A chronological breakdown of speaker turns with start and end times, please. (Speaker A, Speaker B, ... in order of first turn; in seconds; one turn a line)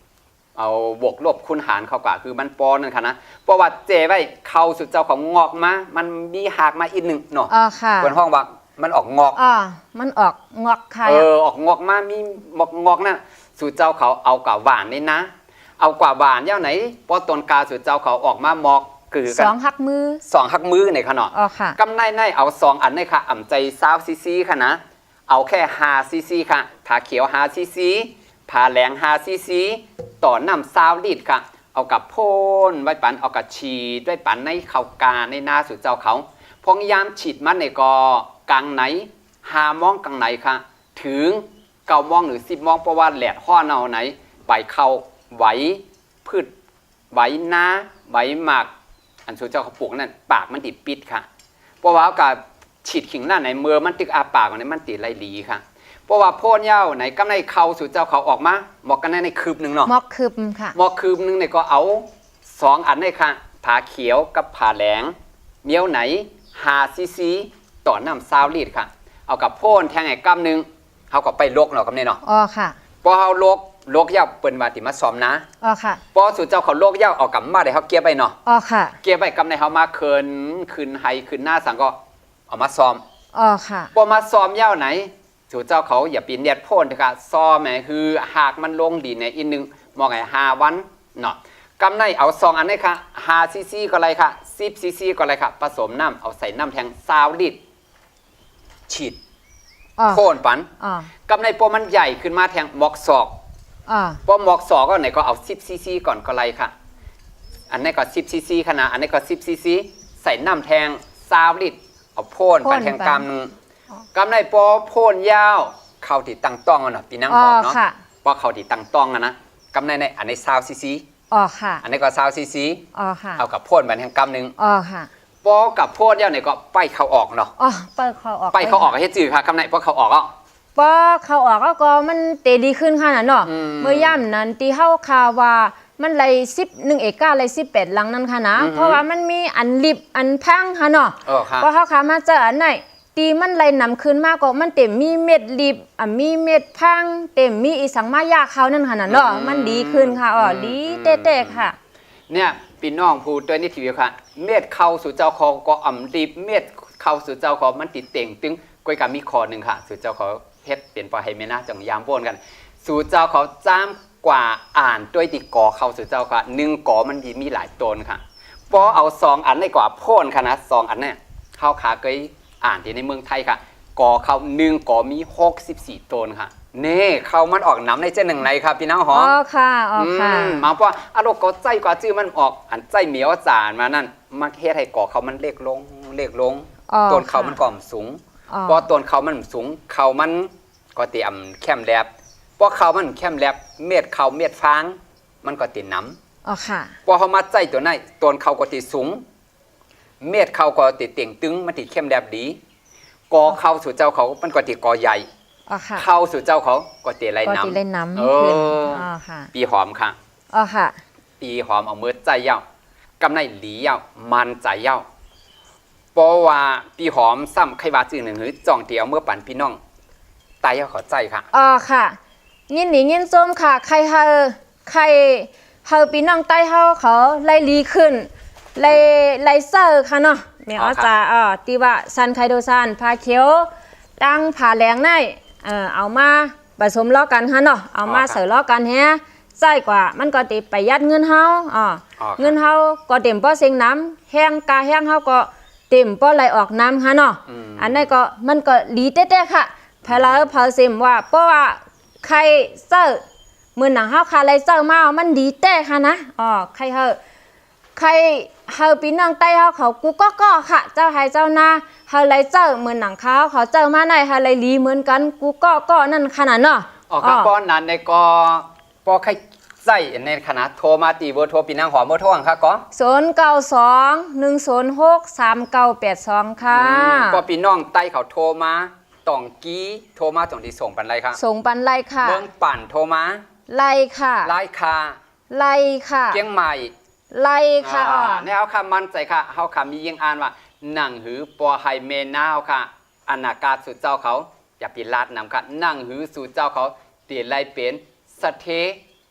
Speaker A: 0.6-9.4
Speaker B: 7.5-8.1
Speaker B: 9.3-11.3
Speaker A: 11.0-19.5
Speaker B: 19.3-20.2
Speaker A: 20.2-46.5
Speaker B: 21.3-21.8
Speaker A: 47.1-48.7
Speaker A: 49.3-51.2
Speaker A: 51.8-59.9
Speaker B: 59.9-60.7
Speaker A: 60.7-72.2
Speaker B: 72.2-72.8
Speaker A: 73.0-75.4
Speaker B: 75.6-76.0
Speaker A: 76.1-78.4
Speaker B: 78.5-79.0
Speaker A: 79.0-82.0
Speaker A: 82.5-83.0
Speaker B: 83.3-83.9
Speaker A: 83.9-97.6
Speaker A: 98.9-99.2
Speaker B: 100.0-100.3
Speaker A: 100.1-100.7
Speaker B: 100.8-101.1
Speaker A: 101.3-103.3
Speaker B: 103.9-104.2
Speaker A: 104.2-106.7
Speaker A: 107.7-113.5
Speaker B: 112.6-113.2
Speaker A: 114.1-121.0
Speaker B: 117.3-118.0
Speaker B: 121.3-121.8
Speaker A: 121.8-122.8
Speaker B: 122.9-123.4
Speaker A: 123.4-124.5
Speaker B: 124.6-125.1
Speaker A: 125.4-127.5
Speaker B: 127.6-128.9
Speaker A: 128.5-130.3
Speaker B: 130.8-151.7
Speaker A: 133.4-134.2
Speaker A: 138.6-139.0
Speaker A: 141.2-141.7
Speaker A: 149.1-151.7
Speaker A: 152.3-179.3
Speaker B: 179.1-180.7
Speaker A: 179.9-196.2
Speaker B: 186.9-187.6
Speaker B: 188.5-188.8
Speaker B: 196.4-196.9
Speaker A: 197.1-199.2
Speaker A: 200.2-202.6
Speaker A: 203.3-205.3
Speaker B: 205.7-206.1
Speaker A: 206.0-210.2
Speaker B: 207.4-209.5
Speaker B: 210.5-211.0
Speaker A: 211.4-212.6
Speaker A: 213.2-215.0
Speaker A: 216.1-219.8
Speaker A: 220.6-221.5
Speaker B: 221.5-222.2
Speaker B: 222.7-253.2
Speaker A: 230.8-231.1
Speaker A: 238.0-238.4
Speaker A: 242.2-242.6
Speaker A: 247.5-248.1
Speaker A: 250.0-250.5
Speaker B: 253.7-257.2
Speaker B: 257.9-267.5
Speaker A: 267.1-272.9
Speaker B: 272.9-277.4
Speaker A: 276.7-281.4
Speaker B: 281.4-282.4
Speaker A: 282.2-283.4
Speaker B: 283.7-284.5
Speaker A: 284.4-285.2
Speaker B: 285.5-286.4
Speaker A: 286.3-286.9
Speaker B: 287.3-288.5
Speaker A: 287.8-299.0